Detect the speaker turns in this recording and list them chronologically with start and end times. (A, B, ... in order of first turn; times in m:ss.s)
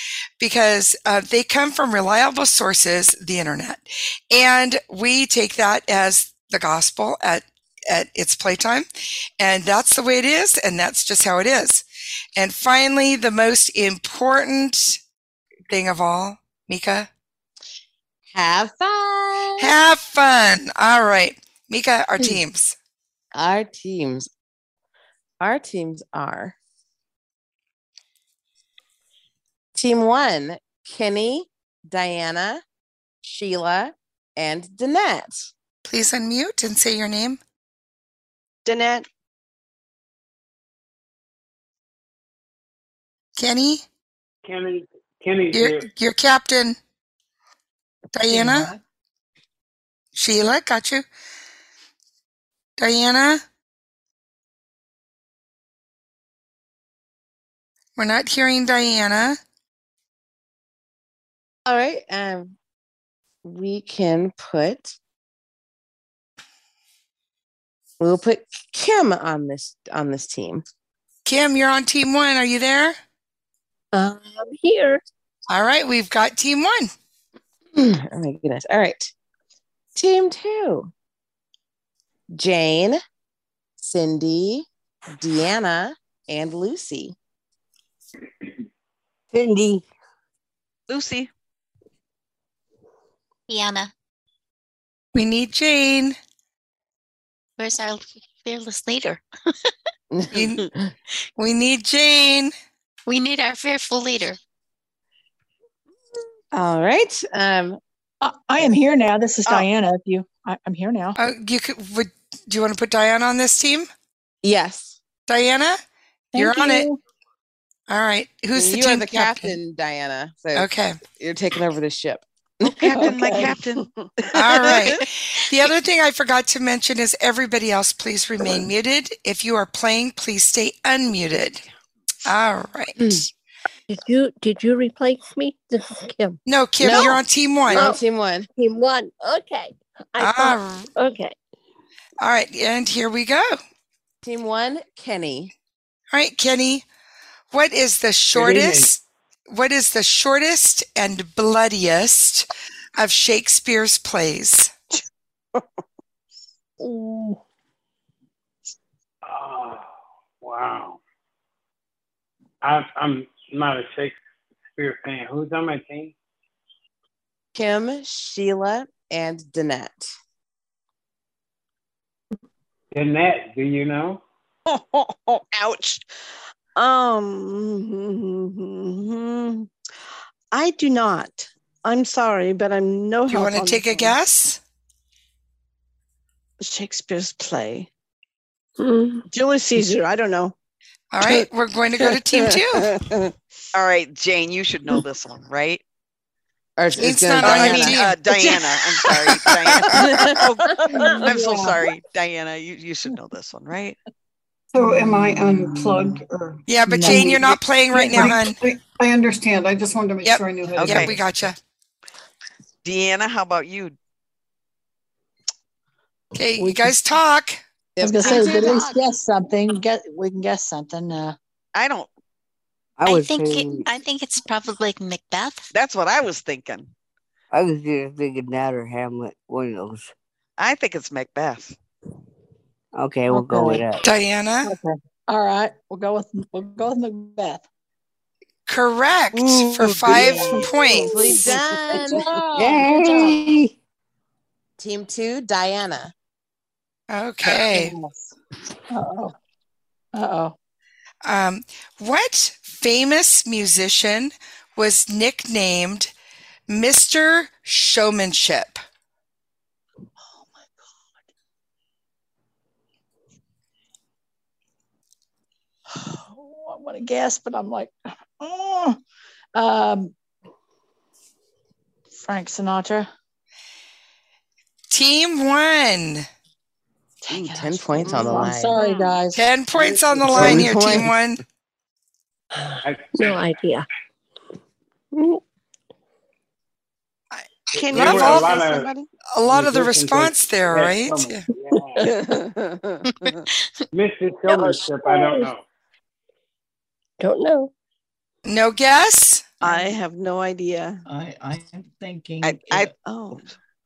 0:00.4-0:08.9 A
0:09.4-0:11.8 A
0:12.4-0:15.0 A
0:15.7-0:17.1 A
0:18.3-0:19.7 B
0:19.6-0:22.8 A
0:23.3-0:24.3 B
0:25.4-0:26.6 B
0:29.8-0:32.6 B
0:33.2-0:35.5 B
0:35.8-0:37.4 A
0:38.6-0:39.1 C
0:43.4-0:43.8 A
0:44.4-0:45.9 D
0:45.5-0:46.8 A
0:48.1-0:48.7 A
0:48.3-0:48.8 E
0:50.2-0:51.0 A
0:52.8-0:53.4 A
0:58.0-0:59.4 A
1:01.7-1:02.6 B
1:03.4-1:05.0 B
1:08.0-1:10.6 B
1:11.3-1:13.0 A
1:13.9-1:15.0 F
1:15.5-1:16.9 A
1:17.8-1:19.1 B
1:20.0-1:20.9 B
1:22.3-1:23.0 B
1:23.8-1:27.2 B
1:29.3-1:29.8 G
1:30.9-1:31.3 H
1:33.5-1:33.9 I
1:35.1-1:36.2 A
1:37.6-1:39.2 I
1:40.1-1:40.6 B
1:40.3-1:40.6 A
1:41.4-1:42.5 A
1:43.1-1:44.4 I
1:46.5-1:47.8 B
1:48.2-1:51.2 J
1:51.2-1:53.9 A
1:54.4-1:55.0 B
1:55.3-1:55.8 A
1:56.3-1:57.0 J
1:56.4-1:56.9 A
1:57.9-1:59.6 A
1:58.6-2:03.4 B
2:00.6-2:01.0 A
2:02.7-2:03.9 H
2:04.3-2:11.6 A
2:12.3-2:13.2 A
2:13.9-2:17.1 F
2:16.5-2:18.0 A
2:16.8-2:18.5 B
2:17.7-2:18.0 F
2:18.5-2:21.4 F
2:20.2-2:20.9 A
2:22.2-2:23.6 A
2:24.2-2:25.5 B
2:26.1-2:26.8 A
2:27.5-2:34.7 A
2:28.3-2:28.9 D
2:36.8-2:37.2 F
2:39.3-2:39.9 D
2:40.4-2:41.0 D
2:42.6-2:44.2 D
2:44.8-2:46.1 D
2:47.6-2:50.1 B
2:52.9-2:54.2 D
2:54.7-2:56.1 C
2:56.8-2:59.7 C
3:00.5-3:04.2 C
3:03.3-3:04.6 A
3:06.6-3:07.9 C
3:09.3-3:10.6 C
3:11.1-3:12.9 A
3:13.7-3:15.8 H
3:16.8-3:18.0 B
3:17.0-3:18.1 A
3:17.4-3:24.0 H
3:19.3-3:20.1 A
3:24.7-3:31.2 K
3:26.7-3:28.6 A
3:26.9-3:27.5 J
3:30.2-3:31.6 A
3:30.8-3:31.2 H
3:32.8-3:34.0 H
3:36.4-3:37.6 A
3:36.6-3:37.0 J
3:38.0-3:38.9 B
3:38.0-3:41.4 J
3:41.8-3:42.1 H
3:43.0-3:43.9 G
3:43.0-3:45.7 I
3:45.7-3:46.9 H
3:47.5-3:50.1 G
3:50.6-3:51.8 H
3:53.0-3:54.0 G
3:53.3-3:53.8 J
3:54.0-3:54.7 A
3:54.6-3:57.6 J
3:58.7-4:01.4 A
3:59.6-4:00.4 G
4:00.2-4:01.2 J
4:00.9-4:02.3 B
4:01.9-4:03.5 J
4:02.6-4:03.7 G
4:04.8-4:06.1 B
4:07.1-4:07.9 A
4:07.5-4:08.3 J
4:08.9-4:09.4 J
4:10.1-4:10.6 J
4:11.2-4:16.1 A
4:16.7-4:18.8 A
4:26.0-4:29.0 J
4:29.6-4:30.1 J
4:32.1-4:33.1 J
4:34.9-4:36.3 A
4:37.2-4:39.4 J
4:37.3-4:38.8 B
4:39.3-4:41.4 A
4:39.8-4:40.4 D
4:40.3-4:41.1 B
4:42.8-4:43.4 D
4:43.2-4:43.9 F
4:47.9-4:48.6 A
4:47.9-4:48.9 D
4:49.3-4:51.4 A
4:49.5-4:52.0 D
4:52.1-4:53.4 C
4:53.9-4:55.6 D
4:54.5-4:55.5 F
4:57.2-4:57.7 F
4:58.5-4:59.4 A
4:59.6-5:01.0 C
5:01.1-5:02.9 E
5:02.4-5:03.5 H